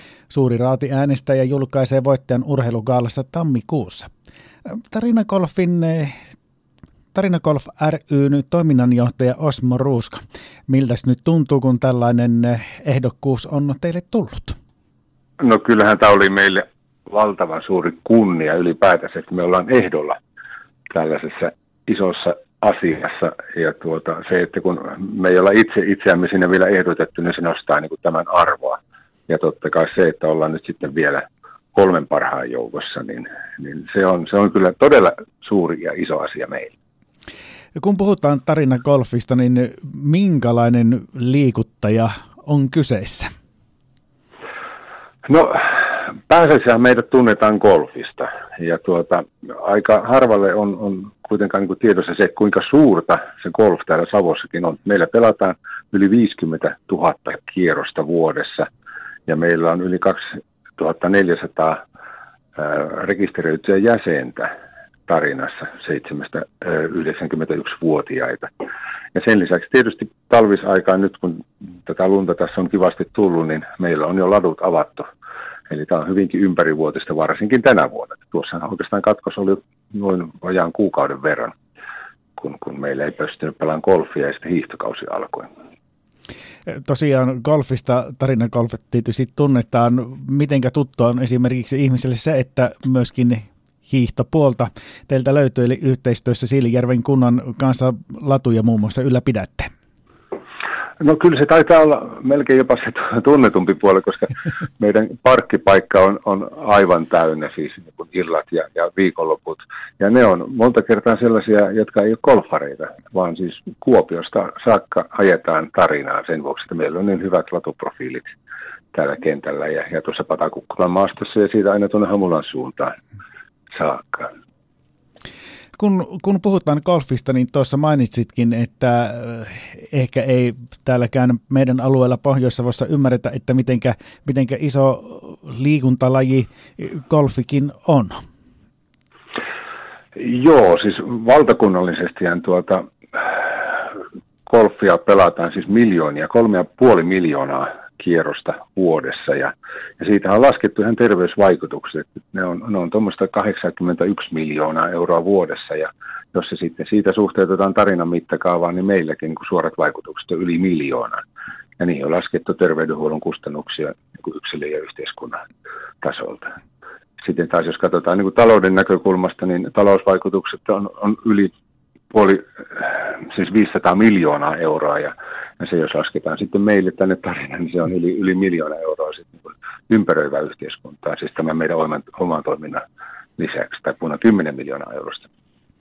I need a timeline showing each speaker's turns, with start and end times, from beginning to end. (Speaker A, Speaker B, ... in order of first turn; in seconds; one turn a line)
Speaker A: 0.3-4.1
Speaker A: 4.7-6.2
Speaker A: 7.1-14.6
Speaker B: 15.4-20.2
Speaker B: 20.9-36.7
Speaker A: 37.8-43.3
Speaker B: 45.2-58.7
Speaker B: 59.3-61.8
Speaker B: 62.5-64.5
Speaker B: 65.1-68.5
Speaker B: 69.1-75.1
Speaker B: 75.7-81.5
Speaker B: 82.4-85.5
Speaker A: 86.7-99.7
Speaker B: 101.0-118.3
Speaker B: 118.9-123.0
Speaker B: 123.7-124.3
Speaker A: 125.8-138.2
Speaker B: 140.1-143.9
Speaker B: 144.5-161.2
Speaker B: 161.8-165.4
Speaker B: 166.0-166.5
Speaker B: 167.2-171.5
Speaker B: 172.1-182.8
Speaker B: 183.4-185.3